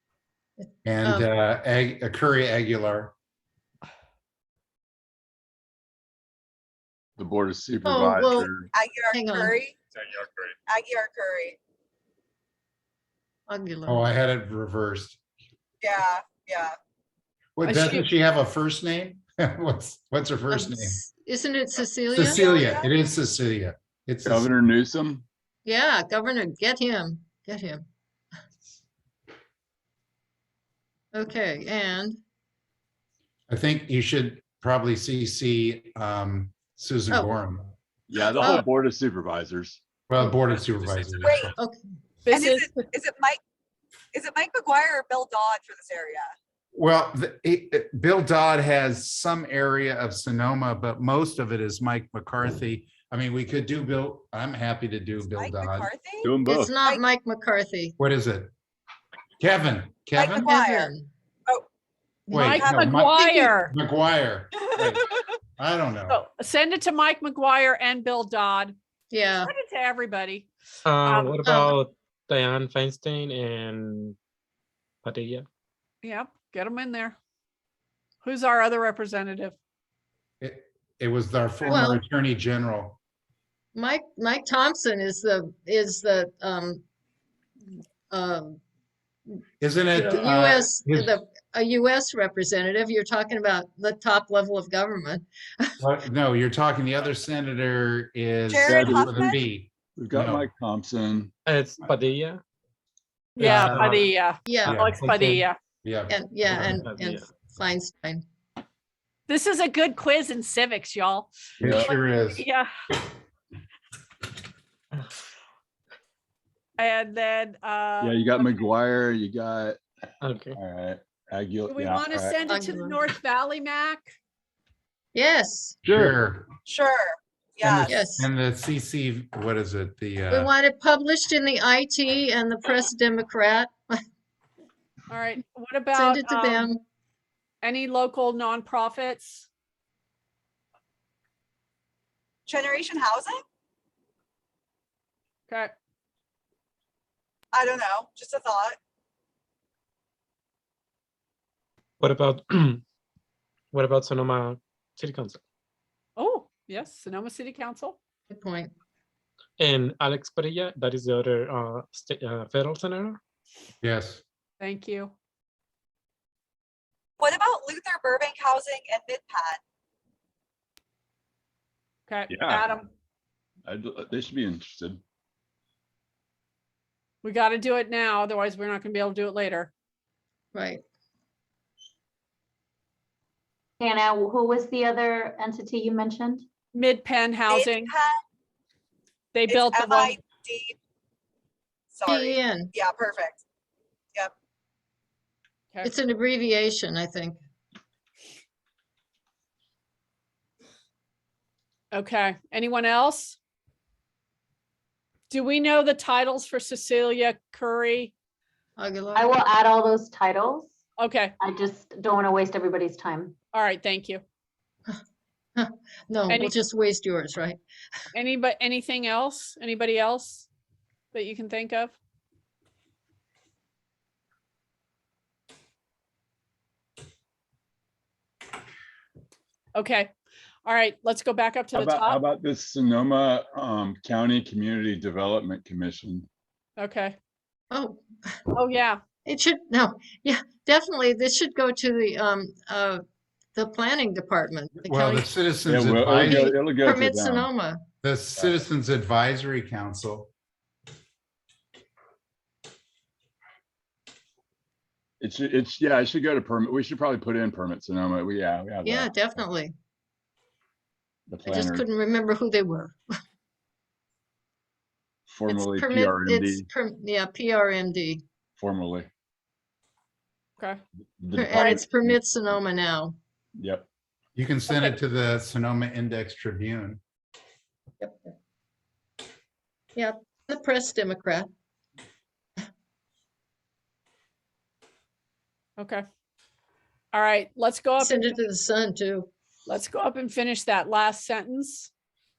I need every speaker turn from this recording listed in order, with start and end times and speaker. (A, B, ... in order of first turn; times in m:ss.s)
0:00.6-0:01.3 A
0:00.8-0:03.1 B
0:07.2-0:08.7 C
0:07.8-0:08.5 A
0:08.7-0:11.6 D
0:09.1-0:09.6 A
0:13.5-0:14.1 A
0:13.9-0:15.2 B
0:15.8-0:16.7 D
0:17.6-0:21.0 B
0:17.6-0:18.1 E
0:20.5-0:22.7 A
0:22.1-0:24.5 B
0:22.2-0:22.9 D
0:24.2-0:25.2 C
0:25.6-0:27.8 A
0:31.1-0:32.2 A
0:33.5-0:37.7 B
0:38.1-0:39.8 C
0:38.4-0:38.6 A
0:40.1-0:41.5 B
0:40.4-0:41.3 C
0:41.2-0:41.5 D
0:41.6-0:41.8 A
0:42.2-0:42.8 E
0:42.3-0:43.4 D
0:44.1-0:46.3 D
0:46.7-0:55.9 B
0:55.3-0:57.0 D
0:56.2-0:56.8 C
0:56.4-0:58.0 A
0:58.0-0:58.5 B
0:59.4-1:00.5 B
1:00.2-1:00.9 D
1:00.4-1:01.1 A
1:02.3-1:02.5 A
1:02.3-1:06.2 B
1:02.4-1:03.7 E
1:02.4-1:03.0 D
1:06.1-1:08.8 E
1:09.1-1:09.5 A
1:09.4-1:10.5 E
1:10.8-1:14.2 F
1:11.0-1:11.4 E
1:11.4-1:11.8 A
1:15.0-1:15.4 F
1:16.0-1:17.2 E
1:18.2-1:19.6 E
1:20.4-1:23.0 B
1:21.6-1:22.0 A
1:23.7-1:26.8 A
1:28.1-1:28.6 A
1:29.6-1:31.1 B
1:29.9-1:30.2 C
1:30.0-1:35.7 A
1:35.8-1:40.5 B
1:38.5-1:39.4 D
1:38.6-1:39.3 C
1:40.0-1:41.3 C
1:41.4-1:42.4 F
1:43.4-1:45.6 E
1:43.4-1:44.0 F
1:43.4-1:44.0 B
1:44.4-1:44.8 A
1:44.6-1:45.0 B
1:44.9-1:45.5 F
1:45.8-1:46.8 B
1:46.1-1:48.2 A
1:46.5-1:47.3 F
1:49.3-1:51.3 E
1:51.6-1:52.4 B
1:51.6-1:51.9 C
1:51.8-1:52.7 E
1:56.8-1:58.5 E
1:58.0-1:59.8 C
2:00.2-2:00.6 F
2:00.5-2:02.4 C
2:01.7-2:04.1 E
2:02.5-2:03.0 A
2:05.1-2:05.8 A
2:05.8-2:06.2 C
2:05.8-2:06.5 B
2:06.6-2:07.9 D
2:07.7-2:10.5 B
2:07.9-2:08.3 A
2:10.3-2:14.0 A
2:15.1-2:16.7 E
2:15.9-2:16.8 A
2:17.6-2:19.5 E
2:22.5-2:23.4 D
2:27.5-2:28.8 D
2:32.0-2:32.8 F
2:33.7-2:35.4 F
2:36.2-2:38.0 E
2:38.3-2:38.7 A
2:39.6-2:43.2 F
2:43.8-2:44.2 B
2:44.6-2:45.1 E
2:47.2-2:49.6 D
2:52.1-2:52.9 E
2:52.3-2:52.7 C
2:53.6-2:55.0 C
2:57.2-2:59.7 E
3:00.5-3:00.8 A
3:03.8-3:06.4 G
3:06.7-3:07.9 E
3:07.5-3:08.2 D
3:09.3-3:10.2 E
3:09.5-3:10.8 D
3:11.9-3:13.4 D
3:12.0-3:12.7 A
3:15.8-3:17.4 A
3:21.9-3:23.4 E
3:25.3-3:28.1 E
3:28.8-3:29.4 A
3:29.1-3:30.7 G
3:31.0-3:31.3 E
3:31.4-3:33.3 G
3:33.5-3:34.2 E
3:35.6-3:37.6 A
3:36.3-3:36.6 E
3:38.1-3:40.5 E
3:41.1-3:42.0 E
3:49.7-3:50.1 E
3:50.6-3:52.2 E
3:51.7-3:56.3 C
3:56.8-3:57.2 E
3:57.7-3:58.4 A
3:58.5-3:59.0 E
3:59.2-4:03.0 A
4:03.5-4:05.3 A
4:04.8-4:06.5 B
4:05.6-4:07.5 C
4:06.3-4:07.8 A
4:08.0-4:10.3 B
4:08.4-4:08.6 C
4:15.2-4:19.1 C
4:18.8-4:19.7 A
4:21.3-4:21.8 C
4:21.5-4:23.0 A
4:25.3-4:26.7 C
4:25.5-4:28.2 A
4:28.6-4:29.1 C
4:31.2-4:32.2 C
4:31.4-4:33.1 A
4:33.6-4:33.8 C
4:34.4-4:37.0 B
4:34.7-4:35.0 E
4:38.0-4:38.3 A
4:39.9-4:41.5 A
4:45.8-4:46.0 E
4:47.1-4:48.3 E
4:48.0-4:49.3 A
4:49.7-4:51.9 E